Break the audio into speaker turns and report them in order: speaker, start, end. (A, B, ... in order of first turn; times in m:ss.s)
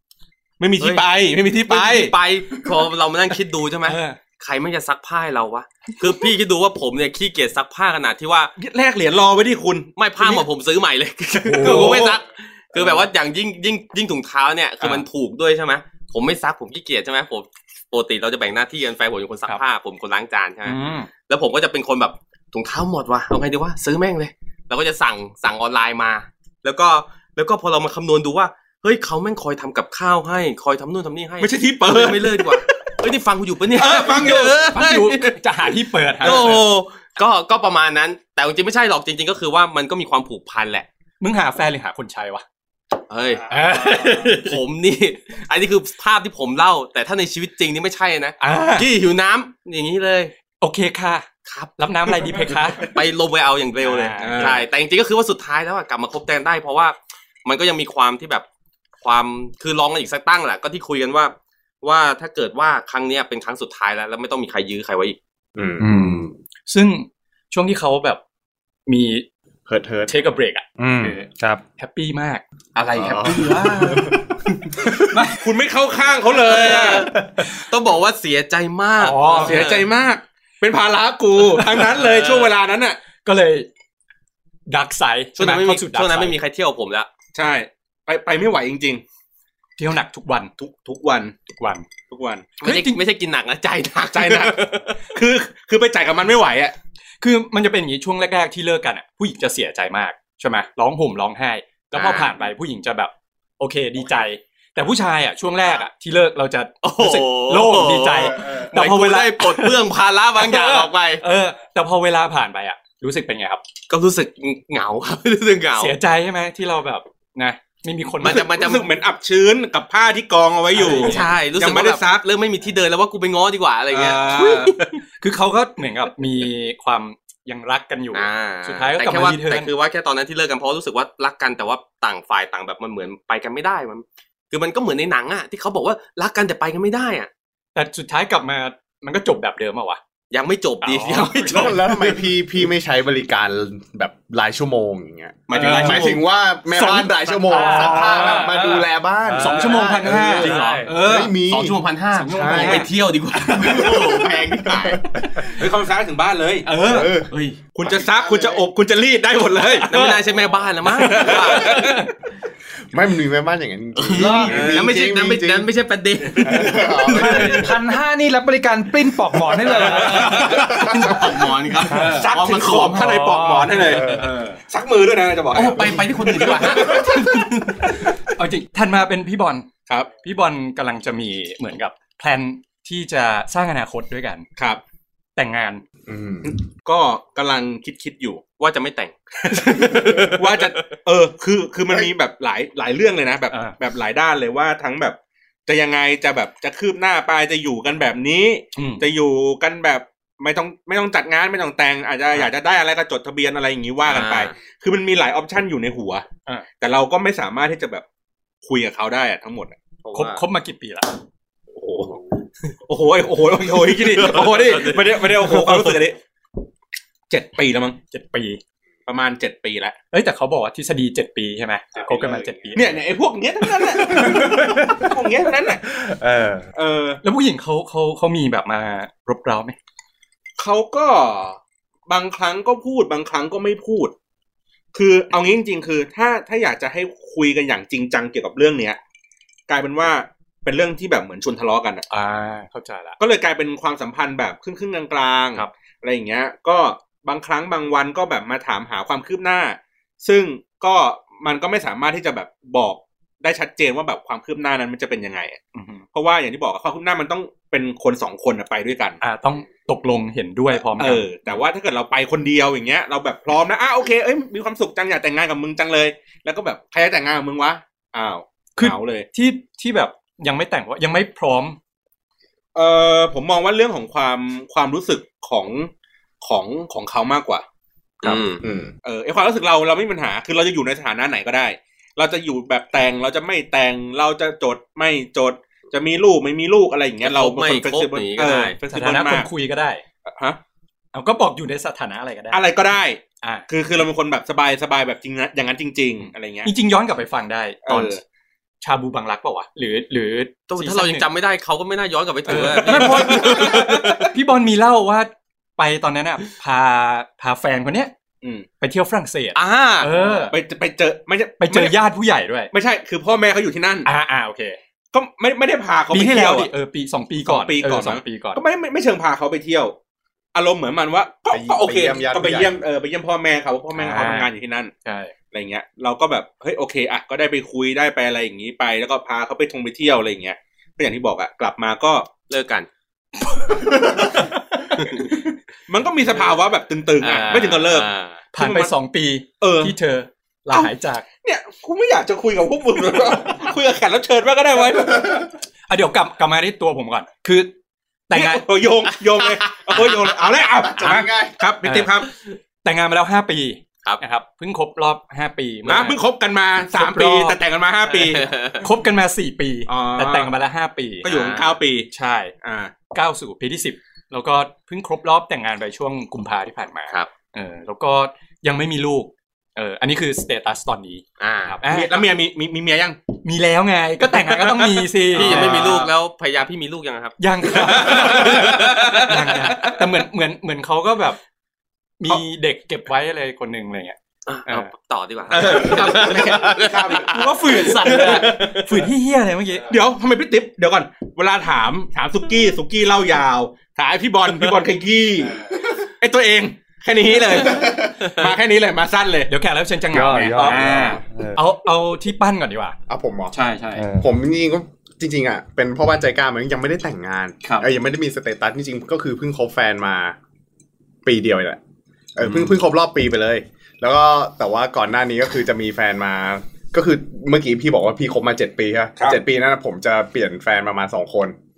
0:00.6-0:02.1 A
0:00.8-0:08.5 B
0:03.8-0:04.2 C
0:08.6-0:10.4 A
0:10.0-0:35.4 B
0:11.4-0:12.1 C
0:11.5-0:12.2 A
0:20.6-0:21.1 C
0:31.4-0:32.7 A
0:33.8-0:34.6 A
0:33.8-0:36.6 C
0:36.2-0:40.8 B
0:41.2-0:42.4 C
0:43.1-0:50.3 B
0:43.5-0:44.6 C
0:48.4-0:48.8 C
0:50.6-0:52.9 C
0:51.5-0:58.4 B
0:53.8-0:54.6 C
0:54.2-0:54.6 A
0:59.0-1:05.2 B
1:05.6-1:06.3 D
1:05.8-1:06.2 E
1:06.7-1:08.2 C
1:08.9-1:09.2 C
1:09.7-1:10.2 D
1:10.1-1:12.4 C
1:10.8-1:11.6 E
1:12.7-1:14.7 B
1:12.9-1:14.2 D
1:13.1-1:14.0 C
1:14.9-1:15.5 C
1:15.4-1:17.2 A
1:16.4-1:19.9 B
1:19.0-1:19.6 C
1:19.2-1:23.0 A
1:21.8-1:22.5 B
1:23.2-1:23.7 C
1:24.7-1:26.4 C
1:25.4-1:27.1 B
1:27.3-1:29.0 A
1:29.8-1:30.5 C
1:30.6-1:31.3 A
1:31.6-1:31.9 C
1:32.1-1:32.5 A
1:32.6-1:33.0 C
1:32.6-1:34.9 B
1:34.1-1:36.7 A
1:37.2-1:49.8 C
1:41.9-1:42.4 B
1:46.8-1:51.2 B
1:48.4-1:48.6 D
1:50.4-1:53.6 C
1:53.9-1:56.0 B
1:55.8-1:58.4 C
1:58.2-1:58.9 B
1:58.2-2:02.2 A
2:00.7-2:01.3 C
2:00.9-2:05.0 B
2:03.9-2:04.8 A
2:04.3-2:09.7 C
2:08.1-2:17.3 B
2:17.7-2:20.0 C
2:20.3-2:22.3 B
2:20.8-2:21.8 C
2:21.5-2:31.8 D
2:25.5-2:26.2 B
2:25.5-2:26.1 C
2:25.6-2:26.0 E
2:26.7-2:28.7 C
2:27.5-2:30.9 E
2:29.4-2:31.4 C
2:31.5-2:35.2 B
2:32.1-2:32.9 C
2:32.3-2:32.9 D
2:33.4-2:35.5 D
2:35.4-2:36.7 A
2:36.6-2:37.1 C
2:36.8-2:38.6 D
2:37.3-2:37.6 B
2:37.7-2:40.3 A
2:39.9-2:41.9 B
2:40.9-2:42.0 A
2:41.2-2:42.1 C
2:42.9-2:45.7 D
2:44.0-2:47.6 B
2:44.2-2:44.7 E
2:44.5-2:44.8 A
2:46.4-2:47.7 D
2:47.1-2:50.7 E
2:49.7-2:53.0 B
2:50.0-2:50.6 A
2:50.4-2:51.4 D
2:51.8-2:54.6 C
2:51.9-2:52.3 E
2:52.0-2:57.4 A
2:52.9-2:53.9 E
2:55.5-2:57.7 B
2:56.7-2:59.7 C
3:00.2-3:04.5 C
3:05.4-3:05.8 C
3:06.1-3:06.5 D
3:06.4-3:08.4 A
3:08.6-3:10.8 B
3:09.4-3:26.2 A
3:13.5-3:13.8 C
3:18.8-3:19.0 C
3:24.0-3:24.5 B
3:26.8-3:28.0 A
3:28.6-3:29.8 A
3:30.0-3:30.4 B
3:30.1-3:31.2 C
3:31.8-3:32.2 B
3:32.9-3:36.2 A
3:33.8-3:35.9 B
3:37.3-3:38.0 A
3:38.1-3:38.6 C
3:39.0-3:40.0 A
3:40.1-3:43.0 C
3:42.7-3:45.9 A
3:44.1-3:45.1 E
3:45.9-3:46.7 E
3:46.7-3:47.2 A
3:47.2-3:49.8 C
3:50.6-3:54.1 A
3:54.9-3:59.0 A
3:59.7-4:02.0 A
4:02.1-4:03.2 C
4:03.2-4:15.6 A
4:15.7-4:16.0 C
4:16.1-4:19.2 A
4:19.2-4:21.3 C
4:21.0-4:29.2 A
4:28.8-4:31.8 C
4:32.7-4:37.6 A
4:38.2-4:38.6 B
4:38.6-4:38.9 D
4:39.0-4:49.5 A
4:47.2-4:48.8 B
4:48.9-4:50.0 C
4:50.2-4:50.6 A
4:51.1-4:52.7 C
4:52.5-4:56.7 A
4:53.4-4:53.6 C
4:56.6-4:58.2 C
4:57.8-4:58.2 A
4:58.8-5:01.3 C
5:00.7-5:04.2 B
5:02.5-5:08.1 C
5:02.9-5:04.2 A
5:08.4-5:08.7 A
5:08.8-5:10.5 C
5:09.5-5:10.2 B
5:10.5-5:12.0 A
5:11.6-5:12.7 C
5:12.7-5:14.1 A
5:14.0-5:14.8 C
5:15.1-5:16.7 A
5:16.1-5:18.6 C
5:17.4-5:19.9 A
5:20.5-5:24.9 A
5:21.5-5:22.8 D
5:23.9-5:24.5 C
5:25.0-5:25.3 C
5:25.5-5:32.3 A
5:32.5-5:32.9 B
5:35.0-5:35.4 B
5:35.9-5:38.9 A
5:37.2-5:38.4 B
5:38.5-5:41.2 C
5:39.6-5:39.9 A
5:41.4-5:45.5 A
5:45.9-5:47.7 C
5:48.3-5:48.6 C
5:48.3-5:52.3 A
5:49.4-5:50.0 B
5:50.9-5:51.6 D
5:51.8-5:52.1 C
5:52.8-5:56.2 C
5:55.8-5:58.5 A
5:56.9-5:57.6 C
5:58.1-5:58.8 B
5:58.8-6:01.3 C
5:59.9-6:00.5 A
6:01.2-6:02.1 A
6:01.2-6:01.7 B
6:02.1-6:02.5 C
6:02.6-6:02.9 A
6:03.1-6:12.2 C
6:11.4-6:11.8 B
6:11.8-6:13.2 A
6:13.4-6:16.1 C
6:15.3-6:19.9 B
6:15.4-6:16.0 A
6:17.4-6:21.4 C
6:17.8-6:19.3 A
6:22.2-6:24.9 C
6:24.5-6:29.0 B
6:25.5-6:28.7 A
6:25.5-6:26.5 C
6:27.1-6:29.9 C
6:29.9-6:39.5 A
6:39.5-6:43.0 C
6:40.1-6:41.6 E
6:40.5-6:41.2 A
6:43.1-6:43.5 D
6:43.5-6:44.1 C
6:44.0-6:44.3 E
6:44.2-6:50.4 D
6:47.6-6:47.9 C
6:51.2-6:51.8 D
6:52.4-7:01.6 D